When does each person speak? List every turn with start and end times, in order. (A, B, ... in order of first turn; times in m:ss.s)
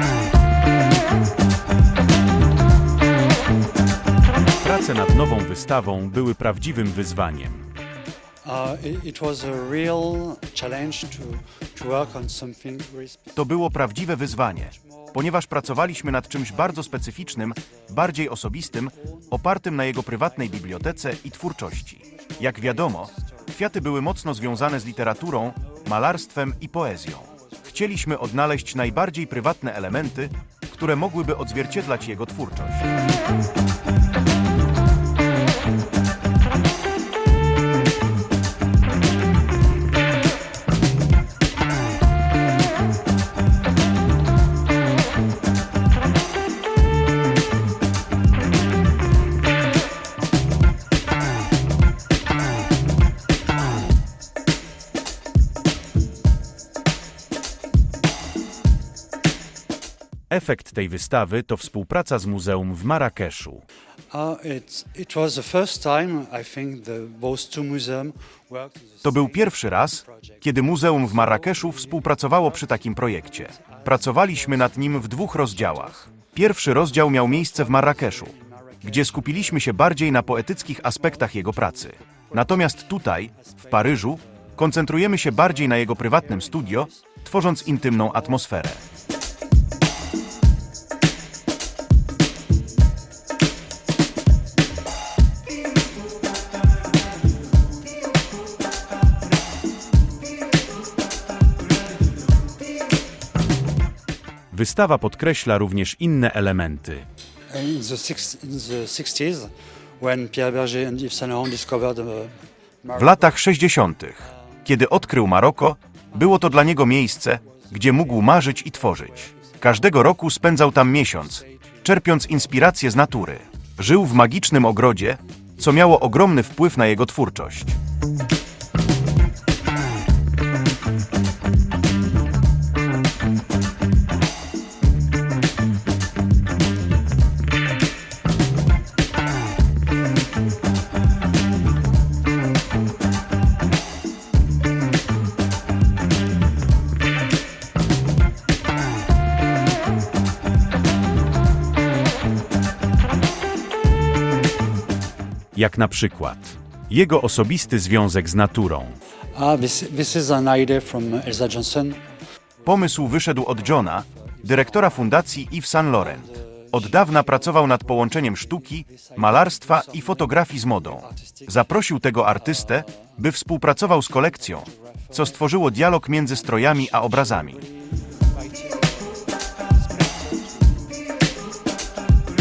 0:04.6-0:07.7 A
0:08.4-0:13.3 B
0:13.4-0:32.9 C
0:22.4-0:23.1 B
1:00.3-1:03.6 A
1:04.1-1:09.4 B
1:09.0-1:28.8 C
1:11.2-1:12.1 B
1:12.6-1:16.0 B
1:17.1-1:19.7 B
1:22.3-1:22.6 B
1:25.4-1:26.9 B
1:27.7-1:28.2 B
1:44.5-1:47.0 A
1:47.5-1:53.3 B
1:52.9-2:07.8 C
1:57.4-1:59.7 B
2:35.5-2:39.0 A
2:39.3-2:42.0 B
2:42.6-2:57.7 C
2:44.5-2:45.1 B
2:46.0-2:50.4 B
2:51.0-2:51.6 B
2:52.4-2:52.9 B
2:54.6-2:55.2 B
2:56.5-2:57.7 B